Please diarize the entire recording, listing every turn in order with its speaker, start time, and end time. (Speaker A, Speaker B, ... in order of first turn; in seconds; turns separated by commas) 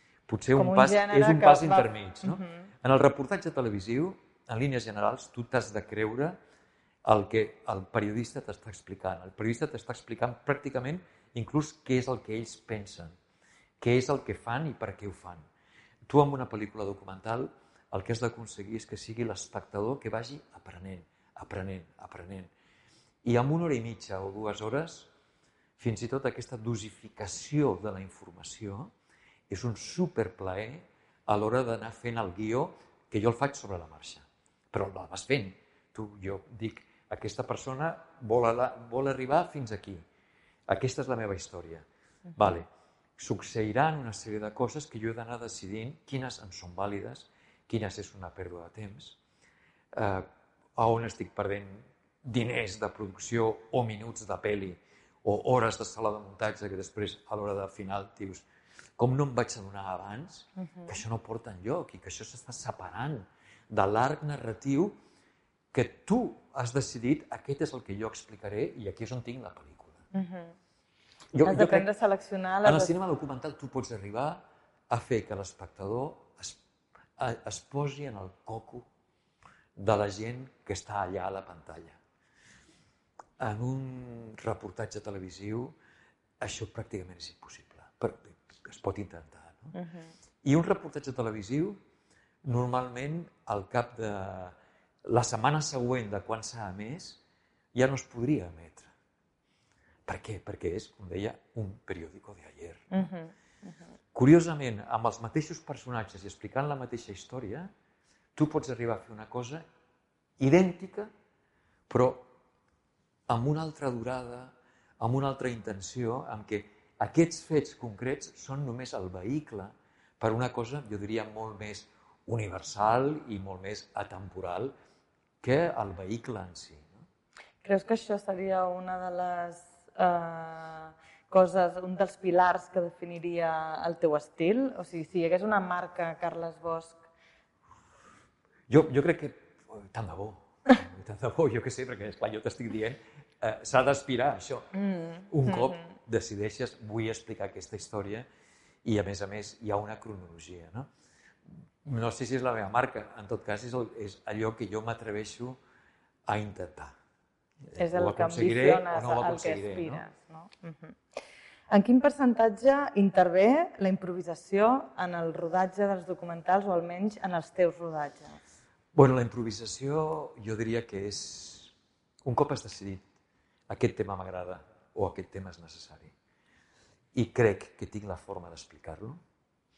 Speaker A: 0.3-6.4, Speaker B: 0.5-2.7, Speaker A: 7.0-13.2, Speaker A: 13.8-15.4, Speaker A: 16.1-22.5, Speaker A: 23.2-25.1, Speaker A: 25.8-28.9, Speaker A: 29.5-40.0, Speaker A: 40.7-41.9, Speaker A: 42.4-49.2, Speaker A: 49.9-58.4, Speaker A: 59.0-65.0, Speaker A: 65.7-70.0, Speaker B: 70.1-70.5, Speaker A: 71.3-71.9, Speaker B: 71.4-72.9, Speaker A: 72.6-76.6, Speaker A: 77.2-78.8, Speaker A: 79.8-82.0, Speaker A: 83.4-85.7, Speaker A: 86.4-89.7, Speaker B: 89.7-90.1, Speaker A: 90.4-91.8, Speaker A: 92.4-97.2, Speaker A: 97.7-98.9, Speaker A: 100.0-102.9, Speaker B: 102.9-103.3, Speaker A: 104.1-107.7, Speaker A: 108.3-109.6, Speaker A: 110.4-111.1, Speaker A: 111.9-112.3, Speaker A: 113.3-124.7, Speaker A: 125.4-126.9, Speaker B: 127.6-137.0, Speaker A: 138.7-144.7, Speaker B: 144.7-145.7, Speaker A: 145.3-148.2, Speaker A: 148.8-150.9, Speaker A: 151.8-155.6, Speaker A: 156.3-156.9, Speaker A: 157.7-160.0, Speaker B: 157.8-161.0, Speaker B: 161.7-168.4, Speaker A: 168.9-171.7, Speaker A: 172.2-173.0, Speaker A: 173.7-176.1, Speaker A: 177.1-179.2